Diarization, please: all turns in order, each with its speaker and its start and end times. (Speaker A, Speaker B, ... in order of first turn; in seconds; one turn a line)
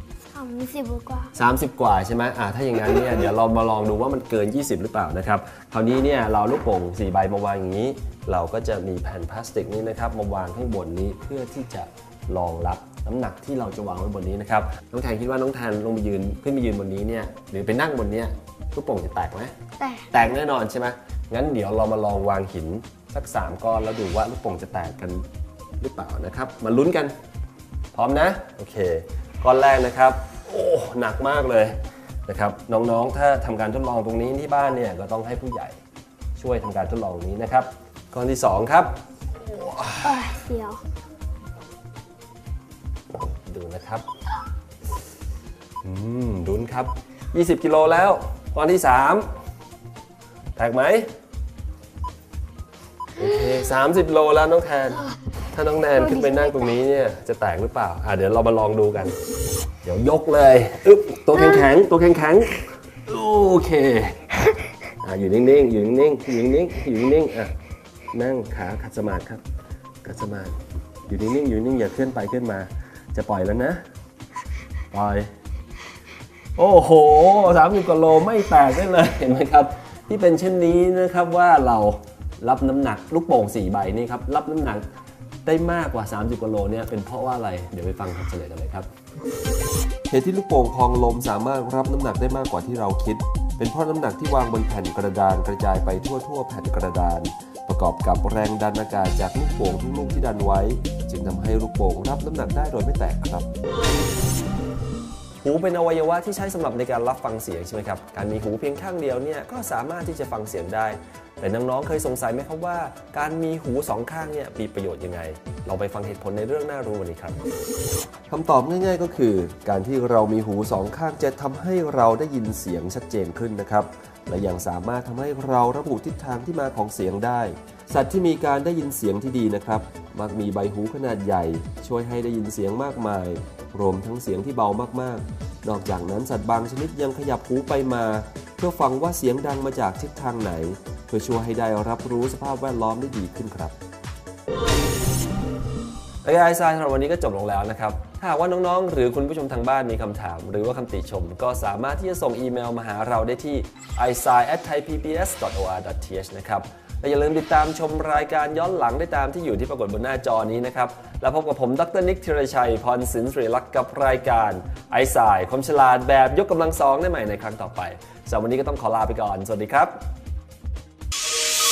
Speaker A: 0.3-1.3
Speaker B: 1.4-19.5
Speaker A: 19.8-20.2
Speaker B: 20.1-25.2
Speaker B: 25.8-27.1
Speaker B: 27.9-35.8
Speaker B: 36.4-40.2
Speaker A: 40.0-40.8
Speaker B: 43.2-44.0
Speaker B: 45.8-49.3
Speaker B: 50.6-51.1
Speaker B: 53.2-59.2
Speaker A: 56.0-56.7
Speaker B: 59.8-64.3
Speaker B: 65.0-67.5
Speaker B: 68.1-69.4
Speaker B: 70.0-73.8
Speaker B: 74.9-75.3
Speaker B: 76.6-84.9
Speaker B: 85.5-88.9
Speaker B: 90.1-103.5
Speaker B: 105.4-117.4
Speaker B: 118.3-143.8
Speaker B: 146.2-170.0